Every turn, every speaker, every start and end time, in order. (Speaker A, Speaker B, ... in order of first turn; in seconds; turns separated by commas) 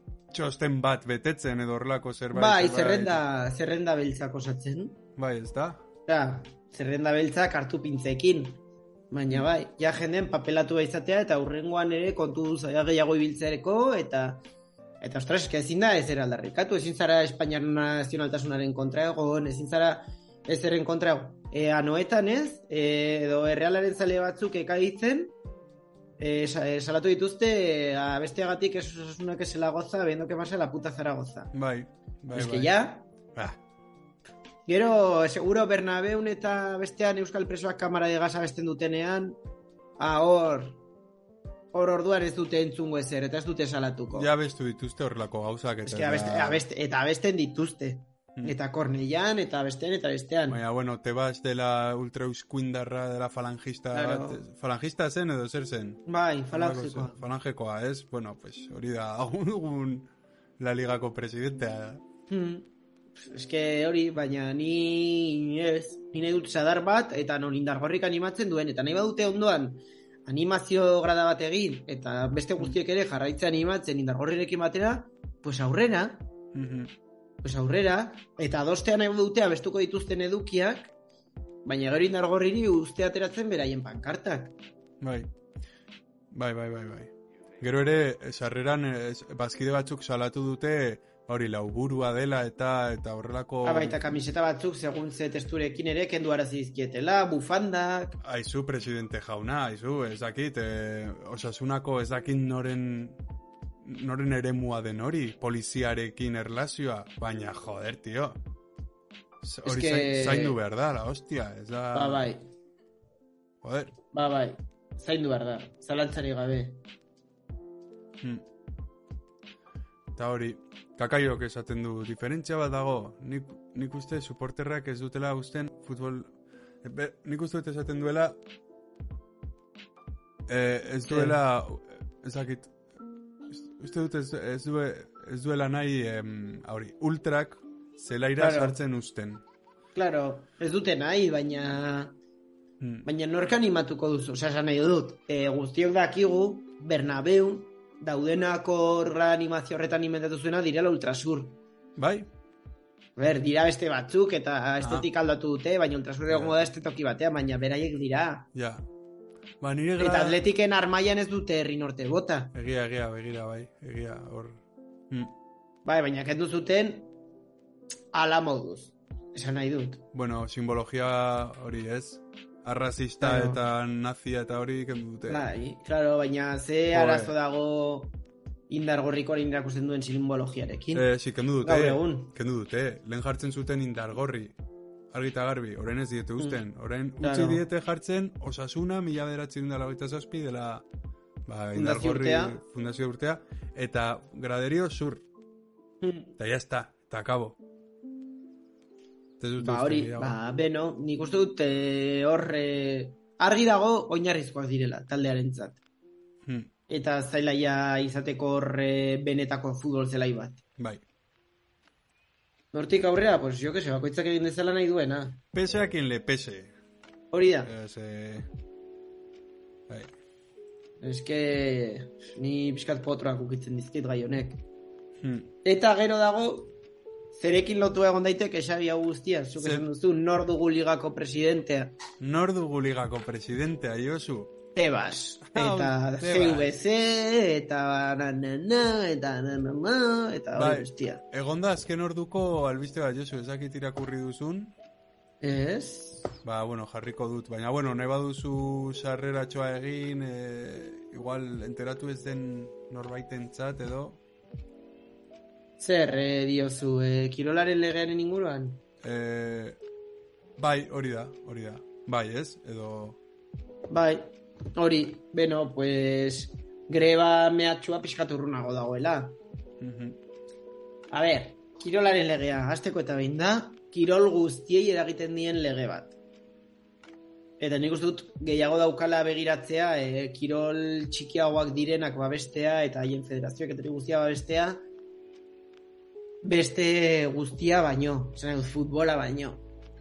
Speaker A: 0.3-3.2, Speaker B: 2.3-5.0, Speaker A: 5.2-5.8, Speaker B: 6.1-8.6, Speaker B: 9.1-14.4, Speaker B: 15.0-25.3, Speaker B: 26.2-31.5, Speaker A: 31.5-32.7, Speaker B: 32.3-33.1, Speaker B: 34.7-39.4, Speaker B: 40.0-40.8, Speaker B: 41.7-44.3, Speaker A: 44.1-46.6, Speaker B: 45.8-50.6, Speaker A: 50.5-62.0, Speaker B: 53.9-54.4, Speaker B: 56.1-57.2, Speaker B: 62.3-76.2, Speaker A: 76.5-76.9, Speaker B: 77.4-80.9, Speaker B: 81.6-84.5, Speaker A: 85.0-85.3, Speaker A: 86.3-94.0, Speaker B: 93.6-98.2, Speaker A: 98.2-103.2, Speaker A: 103.8-108.4, Speaker A: 109.4-112.3, Speaker B: 109.6-110.6, Speaker B: 111.9-112.4, Speaker A: 113.6-113.9, Speaker B: 114.1-116.8, Speaker A: 120.1-128.4, Speaker A: 130.5-132.7, Speaker B: 131.1-131.4, Speaker A: 133.5-139.4, Speaker B: 138.4-138.8, Speaker B: 139.9-142.1, Speaker A: 142.8-143.1, Speaker B: 143.0-151.6, Speaker A: 152.0-152.3, Speaker B: 153.2-158.5, Speaker A: 154.8-155.1, Speaker A: 156.3-156.7, Speaker A: 158.5-158.8, Speaker A: 159.6-160.4, Speaker B: 160.0-162.5, Speaker A: 162.5-165.3, Speaker B: 165.8-167.1, Speaker B: 168.1-170.0, Speaker A: 170.1-175.4, Speaker B: 173.2-173.6, Speaker B: 175.3-178.1, Speaker A: 176.9-177.3, Speaker B: 178.7-181.1, Speaker A: 180.9-184.6, Speaker B: 181.6-182.3, Speaker A: 185.1-190.8, Speaker B: 187.2-187.6, Speaker A: 191.4-195.2, Speaker B: 191.7-192.6, Speaker B: 196.0-196.3, Speaker A: 196.4-197.6, Speaker A: 199.4-200.4, Speaker B: 199.6-205.8, Speaker A: 206.4-206.7, Speaker B: 206.9-210.6, Speaker B: 212.7-215.4, Speaker A: 215.5-216.7, Speaker B: 217.3-217.7, Speaker A: 217.6-218.4, Speaker B: 221.0-224.6, Speaker A: 225.2-225.5, Speaker B: 225.6-226.7, Speaker B: 227.3-232.0, Speaker A: 229.6-229.8, Speaker A: 232.2-234.5, Speaker B: 234.8-241.2, Speaker A: 235.4-236.7, Speaker A: 240.5-244.7, Speaker B: 245.4-246.3, Speaker A: 246.4-254.2, Speaker B: 255.8-258.8, Speaker A: 259.0-259.8, Speaker A: 260.6-263.2, Speaker B: 263.9-269.4, Speaker A: 269.8-270.2, Speaker B: 271.1-276.1, Speaker B: 277.6-284.8, Speaker B: 286.4-289.6